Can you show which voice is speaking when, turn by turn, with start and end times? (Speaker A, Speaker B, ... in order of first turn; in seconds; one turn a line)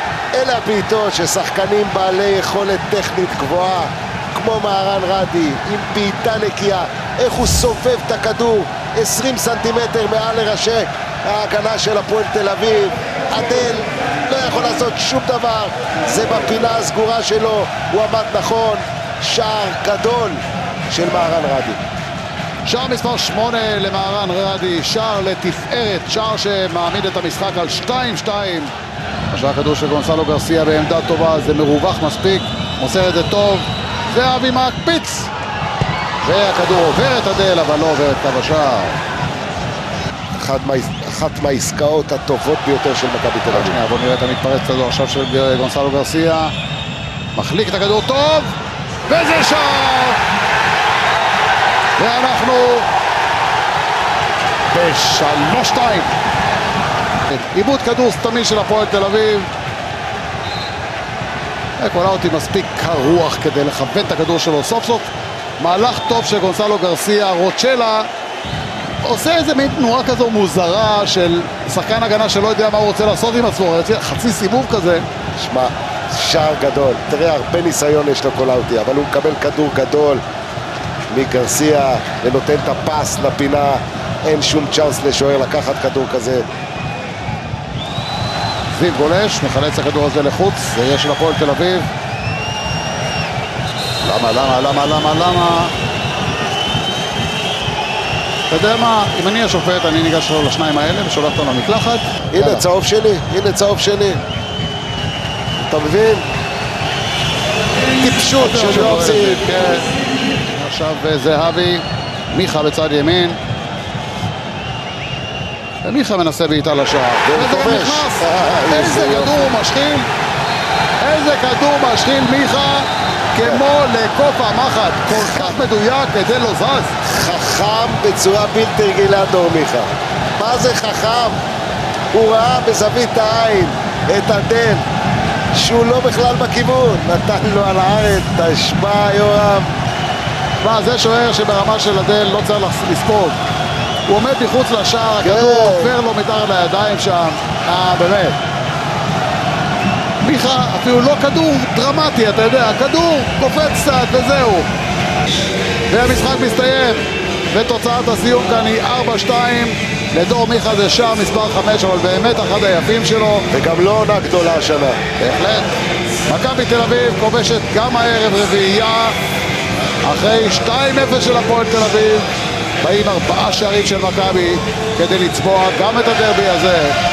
Speaker A: 0.3-21.8
Speaker B: 22.6-28.7
Speaker B: 29.3-35.3
Speaker B: 36.2-39.0
Speaker A: 40.4-43.8
Speaker B: 43.5-46.5
Speaker B: 47.4-48.5
Speaker B: 49.1-50.2
Speaker B: 52.0-52.9
Speaker B: 54.7-56.1
Speaker B: 57.3-59.5
Speaker B: 61.8-68.1
Speaker B: 69.0-75.0
Speaker A: 75.4-80.2
Speaker A: 81.1-86.5
Speaker B: 88.7-91.9
Speaker B: 94.0-95.7
Speaker B: 98.5-102.7
Speaker A: 102.3-104.2
Speaker A: 105.6-106.3
Speaker A: 108.0-109.4
Speaker B: 108.4-109.9
Speaker B: 110.5-113.4
Speaker B: 115.8-120.1
Speaker A: 117.2-119.5
Speaker B: 121.0-126.9
Speaker A: 125.2-125.5
Speaker A: 127.0-131.4
Speaker A: 132.1-134.8
Speaker A: 135.5-139.7
Speaker B: 140.6-143.4
Speaker B: 144.1-148.4
Speaker A: 145.2-145.9
Speaker B: 150.2-154.7
Speaker B: 155.9-163.5
Speaker A: 163.5-165.0
Speaker B: 165.2-165.7
Speaker B: 166.3-169.2
Speaker B: 170.0-172.3
Speaker B: 172.8-177.0